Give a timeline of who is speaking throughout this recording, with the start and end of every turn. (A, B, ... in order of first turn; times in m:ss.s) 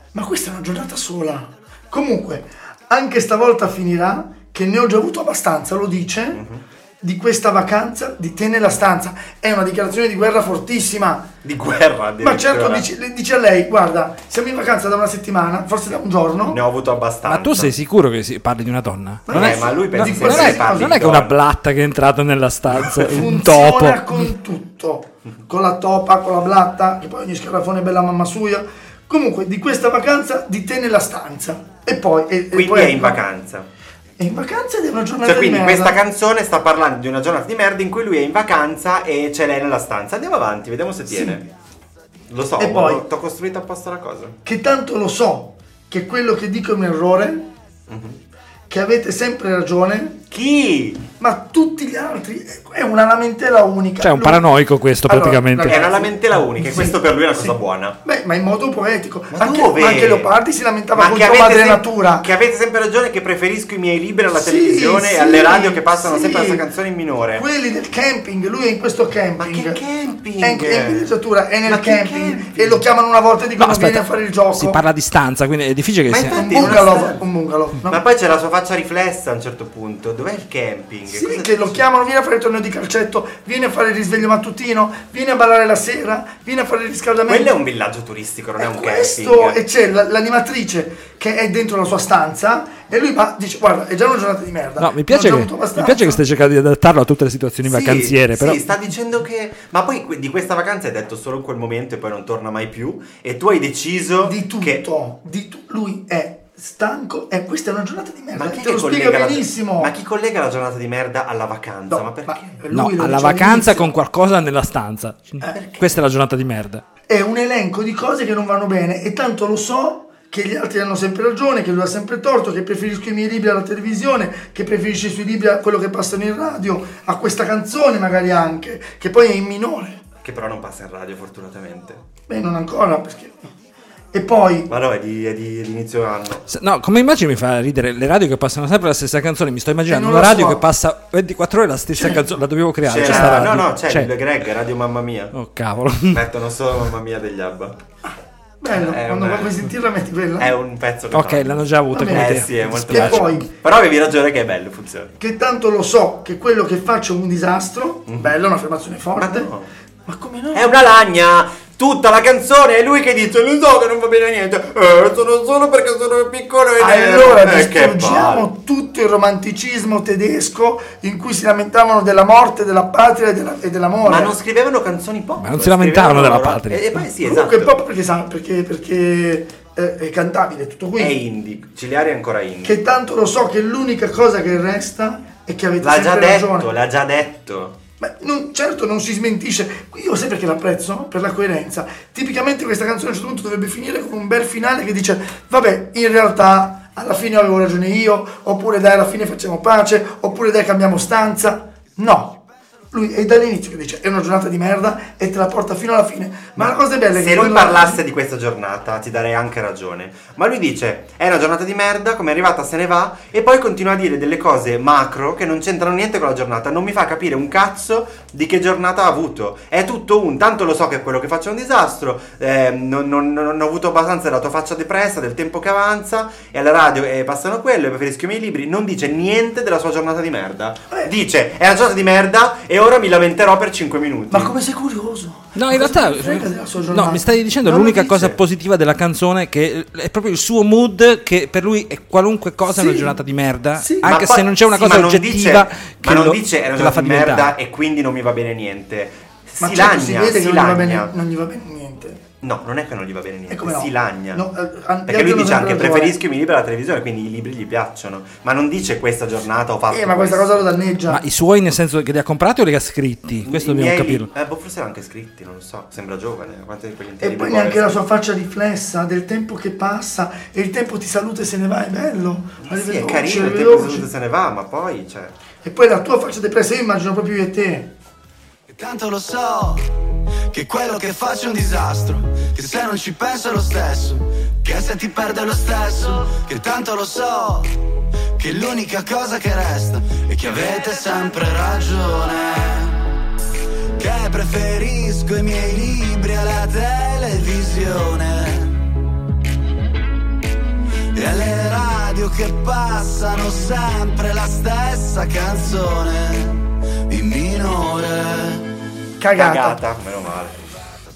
0:00.1-0:06.4 A
0:06.3-0:06.6 B
0:07.0-0:11.3 A
0:11.4-0:12.9 B
0:12.2-0:16.6 A
0:16.5-0:17.8 B
0:17.2-0:24.2 C
0:19.3-0:21.0 A
0:19.3-0:21.4 B
0:22.8-0:33.2 A
0:32.5-0:33.7 B
0:34.2-0:36.0 A
0:35.2-0:41.5 B
0:41.1-0:41.4 A
0:42.3-0:44.4 B
0:42.6-0:43.0 A
0:44.4-0:47.5 A
0:47.9-0:48.2 B
0:48.7-0:50.2 A
0:50.3-0:51.0 B
0:51.2-0:54.4 A
0:54.0-0:55.8 C
0:55.0-1:02.3 A
0:55.7-0:58.0 B
0:59.3-1:00.3 B
1:00.9-1:07.4 B
1:04.3-1:06.6 A
1:07.3-1:09.8 A
1:09.4-1:11.1 B
1:10.4-1:14.8 A
1:11.6-1:12.8 B
1:13.6-1:16.9 C
1:16.1-1:17.2 B
1:16.3-1:18.0 A
1:17.9-1:21.8 B
1:21.1-1:27.5 A
1:27.3-1:29.6 B
1:28.6-1:36.2 A
1:34.8-1:38.6 C
1:37.6-1:44.8 B
1:44.2-1:49.9 A
1:48.3-1:52.6 B
1:51.9-1:53.9 A
1:52.7-1:56.8 C
1:55.4-1:55.8 A
1:57.1-2:10.0 A
2:10.2-2:12.0 B
2:12.3-2:13.5 A
2:14.1-2:14.7 A
2:14.7-2:16.4 B
2:16.5-2:24.1 C
2:19.8-2:20.6 A
2:22.0-2:22.2 A
2:22.8-2:25.3 B
2:23.0-2:23.5 A
2:25.3-2:26.2 C
2:26.1-2:27.8 B
2:28.0-2:30.5 A
2:28.7-2:29.7 B
2:30.4-2:35.1 B
2:31.1-2:33.4 C
2:31.9-2:33.5 A
2:35.2-2:39.5 A
2:38.1-2:38.3 B
2:39.2-2:39.7 B
2:40.0-2:40.8 A
2:40.5-2:48.5 B
2:46.8-2:54.3 A
2:54.0-2:57.8 B
2:55.4-2:57.1 C
2:57.2-3:01.1 A
3:01.0-3:02.8 B
3:02.6-3:06.7 A
3:05.8-3:07.8 B
3:08.0-3:22.4 A
3:22.9-3:28.0 A
3:26.6-3:54.5 B
3:54.3-3:57.3 A
3:55.5-4:07.5 C
3:57.6-3:58.4 B
4:02.8-4:03.0 B
4:03.8-4:04.1 A
4:04.0-4:11.1 B
4:09.6-4:12.2 A
4:12.4-4:14.4 B
4:13.5-4:16.2 A
4:15.1-4:20.7 B
4:19.9-4:21.2 A
4:21.1-4:24.3 C
4:23.4-4:28.0 B
4:27.2-4:34.1 A
4:32.6-4:35.3 B
4:35.6-4:37.9 A
4:38.7-4:39.9 D
4:40.5-4:47.8 D
4:48.4-4:53.0 D
4:53.9-4:58.8 D
5:01.1-5:08.6 D
5:09.2-5:09.8 A
5:09.3-5:10.6 B